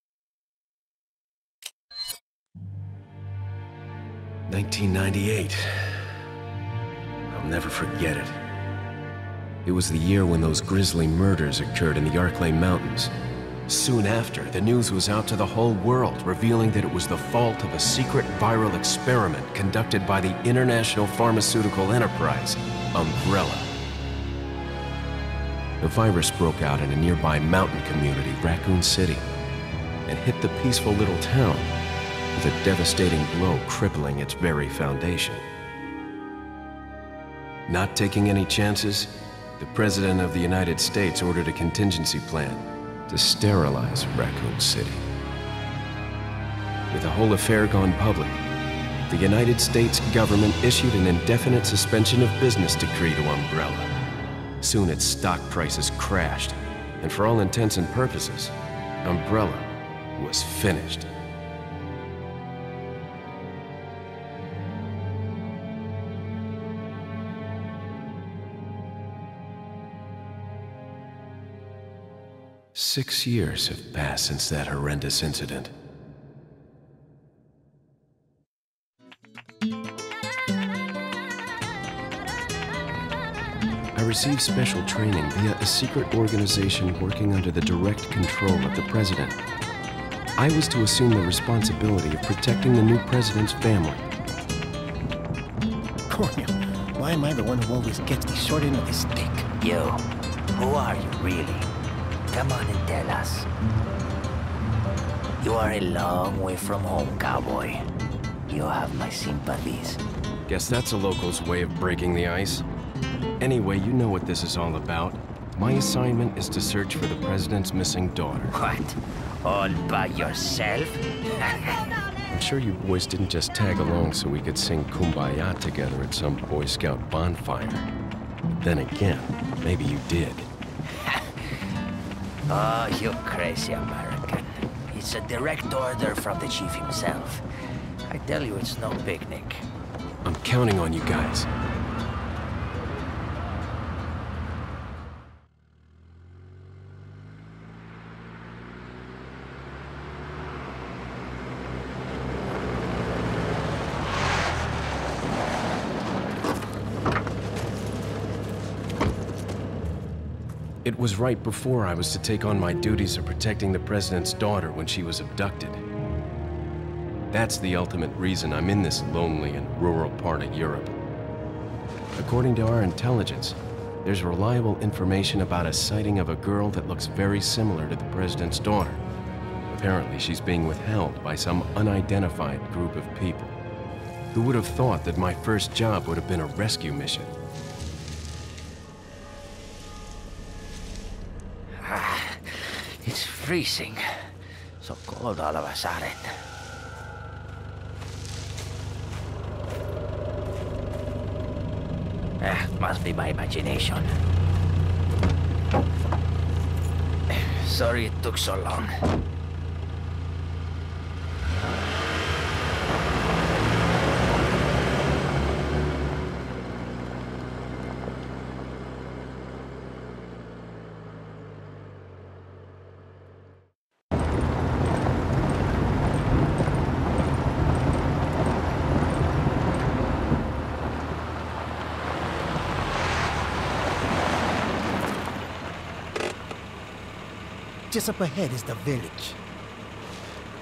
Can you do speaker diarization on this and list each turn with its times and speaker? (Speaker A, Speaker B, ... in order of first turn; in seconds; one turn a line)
Speaker A: 4.5-6.1
Speaker A: 7.3-8.3
Speaker A: 9.6-13.1
Speaker A: 13.7-23.7
Speaker A: 25.8-29.2
Speaker A: 30.1-31.7
Speaker A: 32.4-35.4
Speaker A: 37.7-45.0
Speaker A: 46.9-48.4
Speaker A: 49.1-53.9
Speaker A: 54.6-61.1
Speaker A: 72.7-75.7
Speaker A: 83.9-89.4
Speaker A: 90.4-94.0
Speaker B: 96.1-99.5
Speaker C: 99.6-101.7
Speaker C: 102.3-103.5
Speaker C: 105.4-107.8
Speaker C: 108.5-110.0
Speaker A: 110.5-112.7
Speaker A: 113.4-118.5
Speaker C: 118.5-121.8
Speaker A: 122.3-127.9
Speaker A: 128.6-130.5
Speaker C: 132.5-137.4
Speaker C: 138.1-139.7
Speaker A: 140.2-141.5
Speaker A: 160.8-165.8
Speaker A: 167.3-170.9
Speaker A: 172.2-179.0
Speaker A: 179.7-183.6
Speaker A: 184.3-187.3
Speaker C: 191.8-194.0
Speaker C: 194.8-196.3
Speaker C: 202.4-204.2
Speaker C: 207.3-208.9
Speaker B: 237.9-239.4